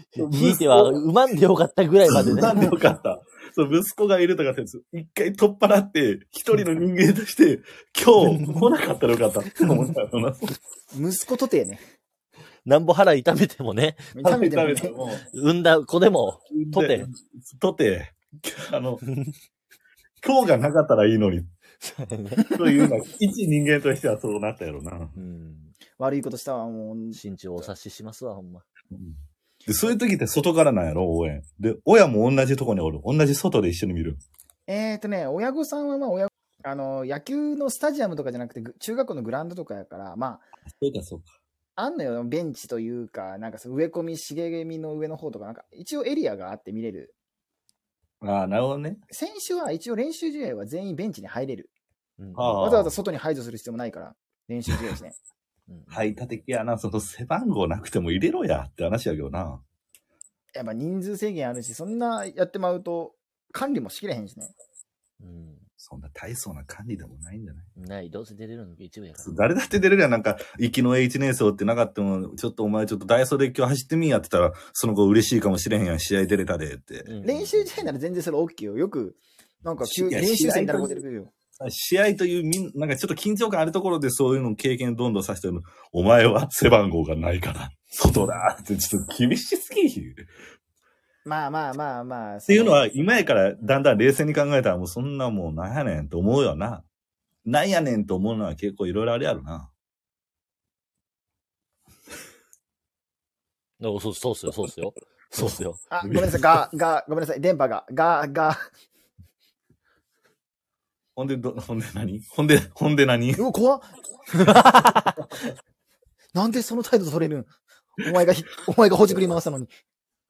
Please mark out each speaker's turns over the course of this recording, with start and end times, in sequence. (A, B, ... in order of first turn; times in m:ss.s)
0:00.1-0:02.7 A
0:00.2-0:01.0 B
0:02.1-0:10.5 B
0:10.9-0:11.8 C
0:12.6-0:14.2 A
0:14.1-0:15.0 C
0:14.2-0:15.2 B
0:15.3-0:17.1 A
0:16.5-0:19.0 B
0:20.2-0:21.5 B
0:21.8-0:22.5 A
0:22.4-0:22.9 C
0:22.6-0:25.2 B
0:25.2-0:25.8 A
0:26.0-0:27.7 C
0:27.1-0:28.7 A
0:28.9-0:34.2 B
0:34.7-0:40.5 C
0:40.8-0:41.3 B
0:41.8-0:47.1 C
0:48.2-0:49.0 B
0:49.1-0:51.7 C
0:52.2-0:52.6 A
0:52.4-0:52.9 B
0:52.6-0:55.2 C
0:55.7-0:56.2 A
0:55.9-0:59.6 B
1:00.6-1:04.5 C
1:05.2-1:05.7 A
1:05.8-1:07.7 B
1:07.8-1:09.4 A
1:09.2-1:17.1 B
1:17.0-1:17.9 A
1:17.2-1:21.3 C
1:19.8-1:21.0 B
1:21.6-1:30.2 B
1:31.2-1:32.8 C
1:32.5-1:36.9 B
1:37.4-1:39.7 B
1:43.8-1:45.8 A
1:45.4-1:46.5 B
1:45.9-1:48.6 C
1:51.2-1:53.4 B
1:53.4-1:54.8 C
1:56.3-1:59.7 C